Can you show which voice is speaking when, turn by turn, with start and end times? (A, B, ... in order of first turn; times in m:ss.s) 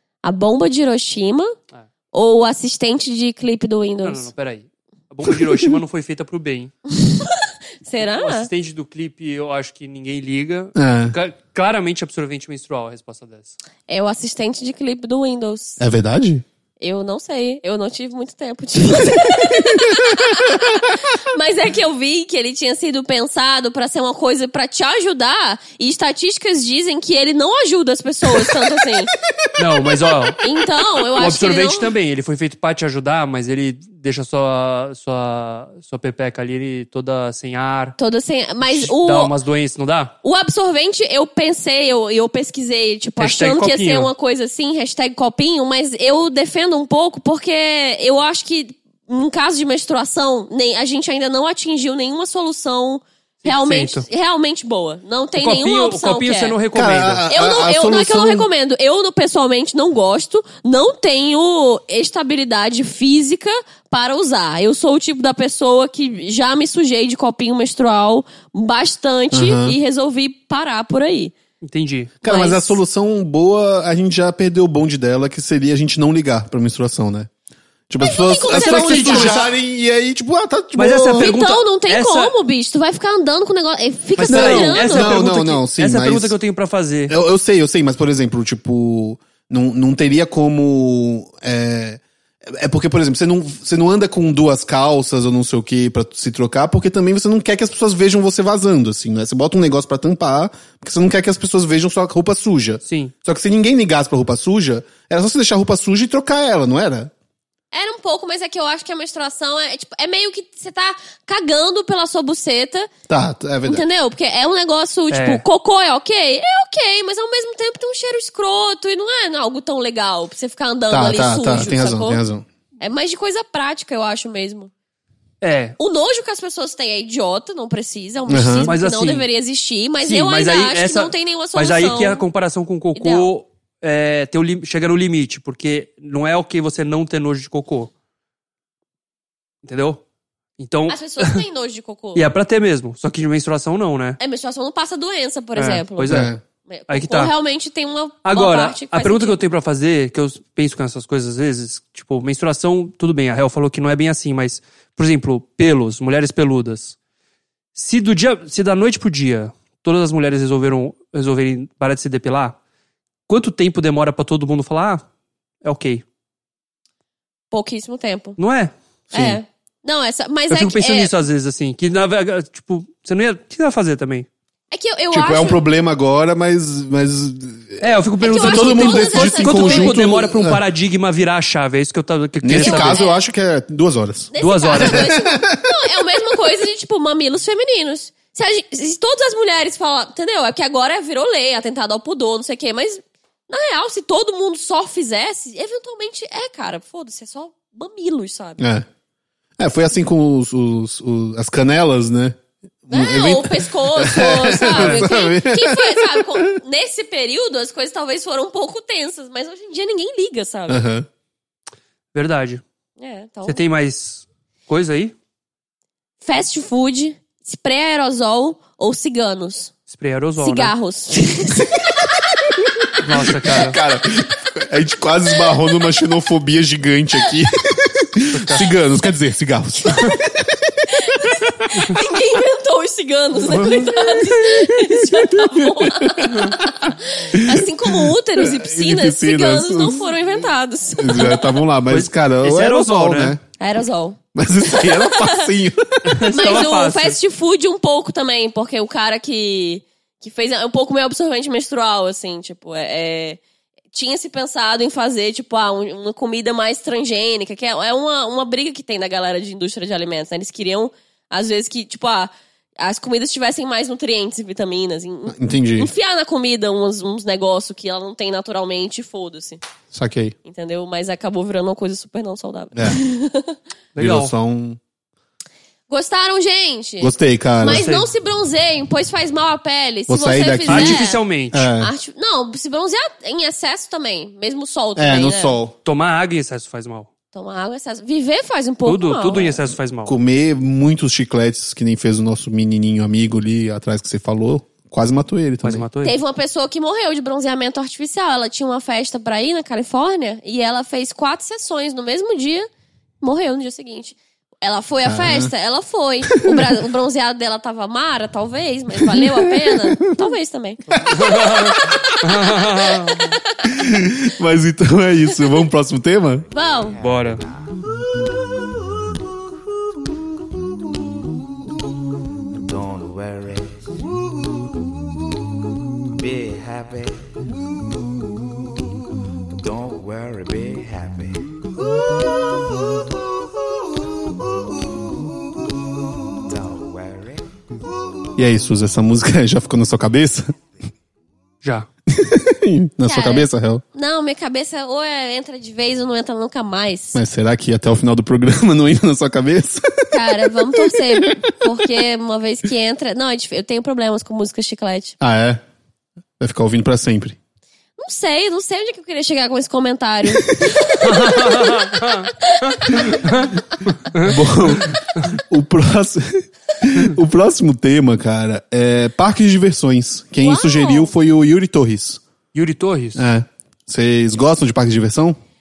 0:00.2-0:01.5 A
0:02.1-0:04.3 A
0:04.0-0:06.7 B
0:06.9-0:08.5 A
0:08.0-0:13.5 B
0:10.8-0:11.2 C
0:13.9-0:15.8 A
0:15.8-0:16.4 C
0:16.8-0:29.1 A
0:28.3-0:28.8 C
0:29.4-0:30.1 C
0:29.6-0:30.4 B
0:30.4-0:31.9 A
0:31.1-0:38.0 B
0:38.0-0:39.3 A
0:38.6-0:40.1 B
0:40.2-0:56.5 A
0:43.2-0:44.1 B
0:53.4-0:54.0 B
0:55.4-0:57.2 B
0:56.7-0:58.5 C
0:57.3-1:11.3 A
1:09.3-1:09.8 C
1:11.6-1:12.2 B
1:12.2-1:17.3 C
1:12.2-1:12.8 A
1:17.9-1:21.3 C
1:18.0-1:19.4 A
1:18.5-1:19.5 B
1:20.8-1:22.3 B
1:21.2-1:25.2 A
1:24.2-1:27.1 B
1:24.2-1:26.3 C
1:27.1-1:47.1 C
1:42.8-1:43.1 B
1:47.7-1:52.9 A
1:53.1-1:53.8 C
1:53.6-2:02.2 A
1:55.1-1:55.4 B
2:00.9-2:02.4 C
2:02.8-2:04.7 A
2:05.4-2:05.8 B
2:05.8-2:12.2 A
2:08.3-2:08.7 C
2:08.7-2:09.2 B
2:10.0-2:17.9 B
2:12.9-2:13.3 A
2:19.6-2:20.0 B
2:20.6-2:21.4 B
2:20.9-2:22.2 A
2:22.1-2:24.2 B
2:24.2-2:29.4 A
2:25.6-2:26.3 B
2:26.1-2:26.4 C
2:26.9-2:27.3 B
2:28.2-2:37.0 B
2:37.7-2:42.6 B
2:43.3-2:45.0 B
2:45.6-2:46.0 B
2:47.5-2:48.4 A
2:48.4-2:48.7 B
2:49.1-2:49.4 C
2:49.1-2:51.1 A
2:50.5-2:54.3 B
2:54.7-2:55.6 A
2:55.1-3:00.6 C
2:57.8-3:03.0 B
2:58.2-3:00.0 A
3:02.4-3:05.8 C
3:02.6-3:03.2 A
3:04.3-3:18.6 A
3:04.4-3:05.1 B
3:18.6-3:18.9 C
3:19.6-3:26.5 C
3:22.9-3:30.8 A
3:24.8-3:25.0 B
3:30.7-3:31.1 C
3:32.1-3:32.6 B
3:33.0-3:33.6 A
3:33.4-3:35.1 B
3:36.2-3:39.7 A
3:39.9-3:40.7 B
3:40.4-3:41.8 A
3:43.0-3:43.8 B
3:43.1-3:51.5 C
3:48.3-3:48.7 B
3:51.0-4:01.6 A
3:53.4-4:00.1 C
4:01.0-4:03.4 C
4:01.9-4:03.4 B
4:03.6-4:05.5 A
4:04.3-4:06.3 C
4:06.0-4:07.2 B
4:06.3-4:13.4 A
4:13.9-4:29.6 A
4:25.3-4:25.9 C
4:29.9-4:30.3 C
4:30.4-4:33.6 A
4:33.9-4:34.3 B
4:34.0-4:34.8 C
4:35.9-4:41.2 A
4:37.0-4:37.9 C
4:37.6-4:38.1 B
4:40.1-4:41.9 C
4:40.7-4:41.7 B
4:41.8-4:45.6 A
4:45.0-4:45.8 C
4:45.8-4:47.1 B
4:47.3-4:49.6 A
4:48.8-4:50.1 B
4:50.0-4:55.8 C
4:55.6-4:56.2 B
4:56.0-5:02.7 A
5:03.2-5:10.8 A
5:05.0-5:05.5 C
5:06.3-5:06.8 C
5:09.0-5:10.3 C
5:10.9-5:12.3 C
5:11.1-5:13.3 B
5:13.3-5:13.6 A
5:13.6-5:16.4 C
5:16.5-5:17.0 A
5:16.6-5:17.8 D
5:17.0-5:17.4 B
5:22.6-5:23.9 D
5:26.2-5:27.3 D
5:29.6-5:31.6 D
5:36.4-5:37.5 D
5:38.4-5:40.5 C
5:41.6-5:41.9 B
5:42.1-5:43.8 C
5:43.0-5:47.2 A
5:47.1-5:51.3 C
5:50.1-5:55.2 A
5:55.2-5:55.6 C
5:56.4-5:57.4 C
5:58.0-6:01.7 A
6:01.0-6:05.3 B
6:02.4-6:02.7 A
6:04.2-6:12.2 C
6:10.4-6:11.1 A
6:12.5-6:13.2 B
6:13.2-6:15.4 C